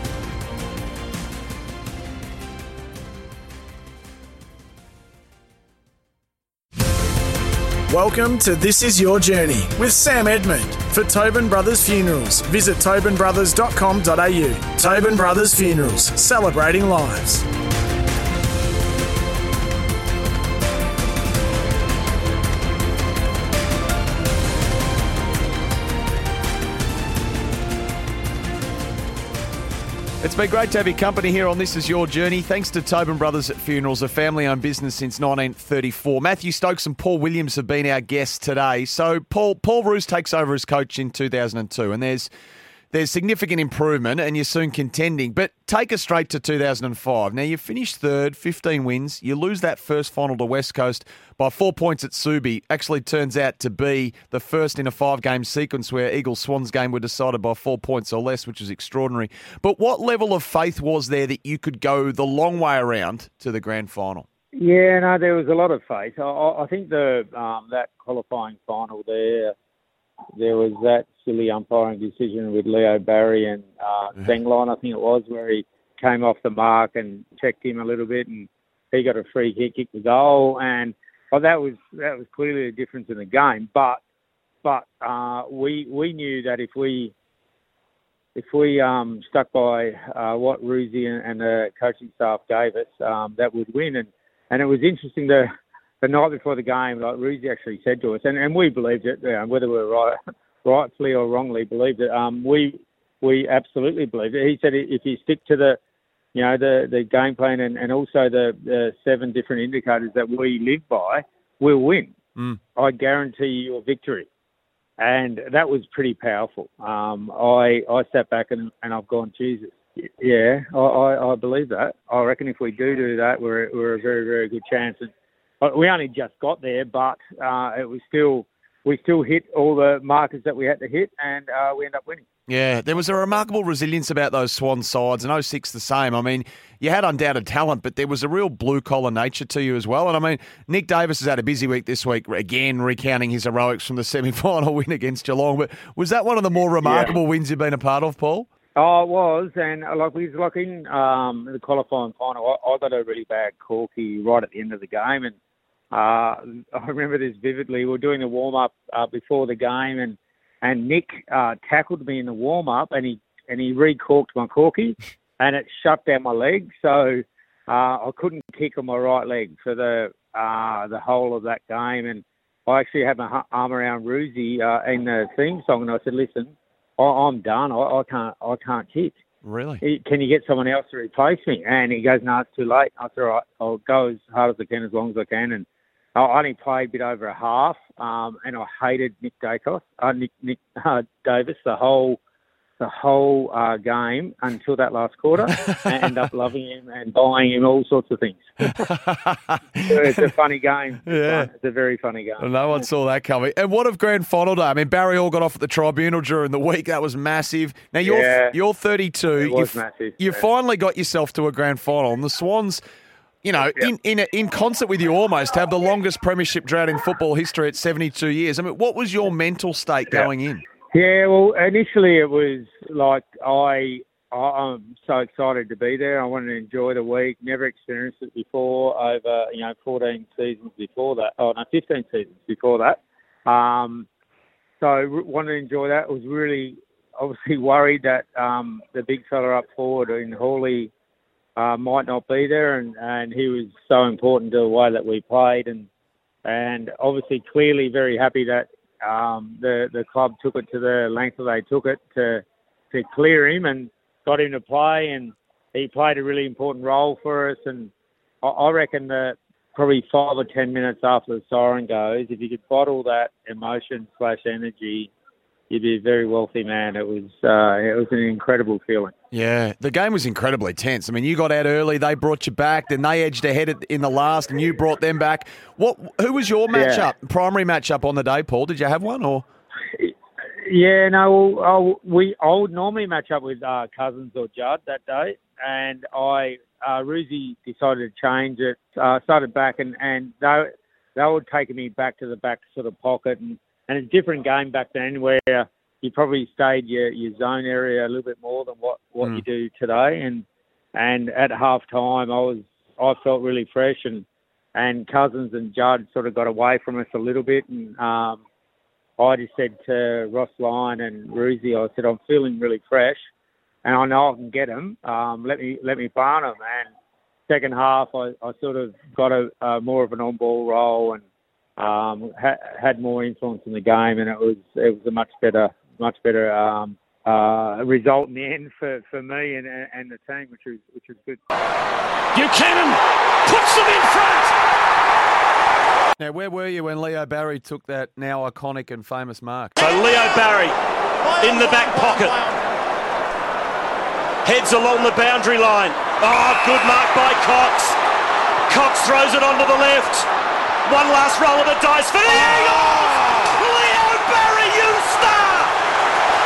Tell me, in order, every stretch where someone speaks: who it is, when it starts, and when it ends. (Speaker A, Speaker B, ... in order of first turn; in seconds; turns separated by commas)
Speaker A: 7.9-17.4, Speaker B: 30.2-42.3, Speaker B: 42.9-64.2, Speaker C: 64.5-69.5, Speaker C: 70.3-84.0, Speaker C: 84.6-87.1, Speaker C: 88.3-95.5, Speaker C: 96.0-105.8, Speaker C: 106.3-112.2, Speaker C: 112.8-114.3, Speaker C: 115.0-132.2, Speaker B: 132.5-148.5, Speaker C: 146.8-147.2, Speaker C: 148.7-155.3, Speaker C: 155.9-179.2, Speaker B: 179.4-179.8, Speaker C: 179.8-192.2, Speaker C: 192.8-198.7, Speaker B: 195.5-196.1, Speaker B: 198.6-200.3, Speaker C: 199.9-202.9, Speaker B: 201.1-201.5, Speaker B: 202.4-212.8, Speaker C: 208.0-208.6, Speaker C: 209.3-210.4, Speaker B: 213.4-220.6, Speaker C: 213.6-213.9, Speaker C: 220.9-234.1, Speaker C: 234.8-240.9, Speaker C: 241.6-245.9, Speaker C: 246.4-265.1, Speaker C: 265.7-269.1, Speaker B: 269.3-279.4, Speaker C: 276.7-277.1, Speaker C: 279.9-308.4, Speaker C: 309.2-313.2, Speaker C: 313.8-316.9, Speaker C: 317.5-321.2, Speaker C: 321.8-331.4, Speaker D: 332.3-332.9, Speaker D: 333.5-334.5, Speaker B: 336.2-339.8, Speaker D: 339.8-340.7, Speaker D: 341.3-342.5, Speaker D: 344.4-347.9, Speaker D: 348.7-350.2, Speaker D: 350.9-355.7